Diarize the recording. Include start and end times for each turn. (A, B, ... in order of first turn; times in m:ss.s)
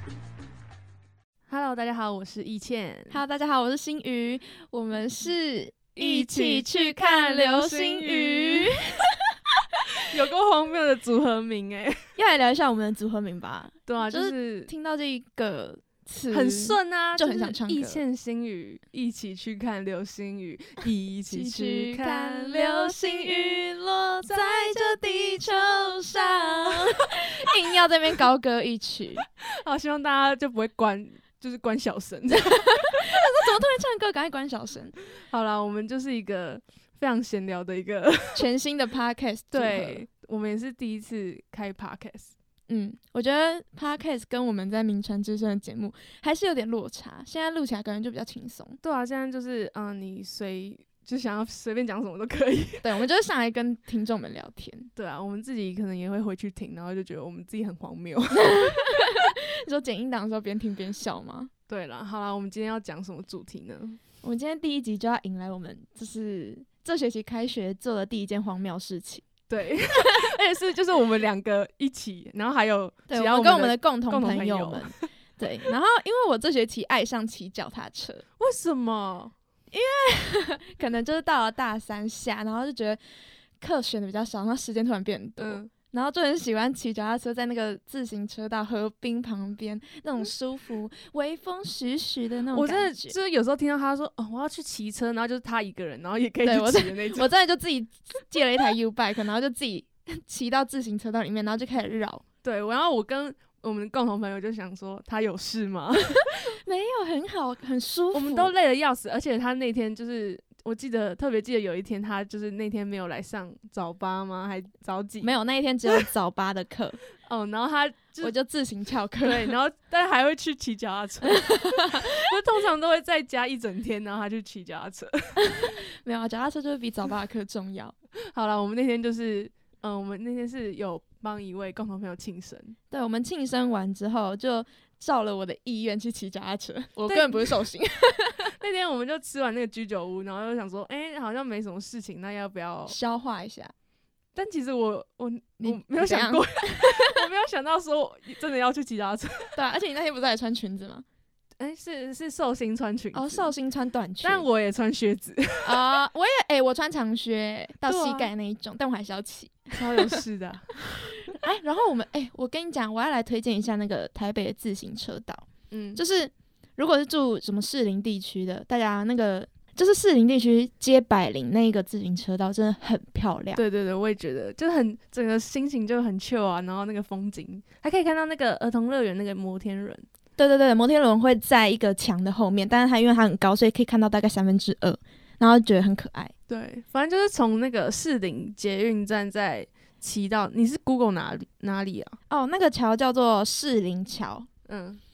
0:01.5-0:03.2 A
0:03.1-0:09.5 B
0:06.0-0:08.8 A
0:10.0-0:12.1 A
0:12.2-0:18.0 B
0:13.9-0:14.7 A
0:16.3-0:23.6 A
0:21.3-0:29.3 B
0:24.2-0:24.9 A
0:29.6-0:33.5 A
0:32.4-0:35.0 B
0:35.2-0:38.5 A
0:38.4-0:40.0 B
0:39.5-0:42.3 A
0:42.7-0:48.8 B
0:48.8-0:52.9 A
0:52.8-0:54.9 B
0:55.0-0:58.6 A
0:58.3-1:01.5 B
1:01.7-1:04.0 A
1:04.2-1:09.3 B
1:09.5-1:15.1 A
1:09.9-1:10.2 B
1:13.1-1:18.2 B
1:18.4-1:19.3 A
1:19.7-1:23.0 B
1:23.6-1:33.2 B
1:25.4-1:25.7 A
1:32.5-1:37.3 A
1:36.4-1:42.2 B
1:42.4-1:46.6 A
1:46.0-1:48.5 B
1:48.1-1:55.3 A
1:55.2-1:57.0 B
1:57.2-1:58.3 A
1:58.2-1:59.6 B
1:59.2-2:05.8 A
2:01.2-2:02.3 B
2:05.4-2:08.0 B
2:08.3-2:12.8 A
2:12.9-2:18.5 B
2:17.0-2:17.7 A
2:18.4-2:23.0 A
2:22.9-2:23.7 B
2:24.4-2:29.6 A
2:25.6-2:27.3 B
2:29.6-2:31.0 B
2:31.6-2:33.5 A
2:33.1-2:34.5 B
2:34.2-2:36.0 A
2:35.6-2:40.2 B
2:37.8-2:38.3 A
2:39.7-2:40.7 A
2:40.9-2:53.6 B
2:45.7-2:46.0 A
2:53.6-3:00.1 A
3:00.4-3:06.3 B
3:06.5-3:12.2 A
3:12.3-3:14.5 B
3:14.7-3:15.0 A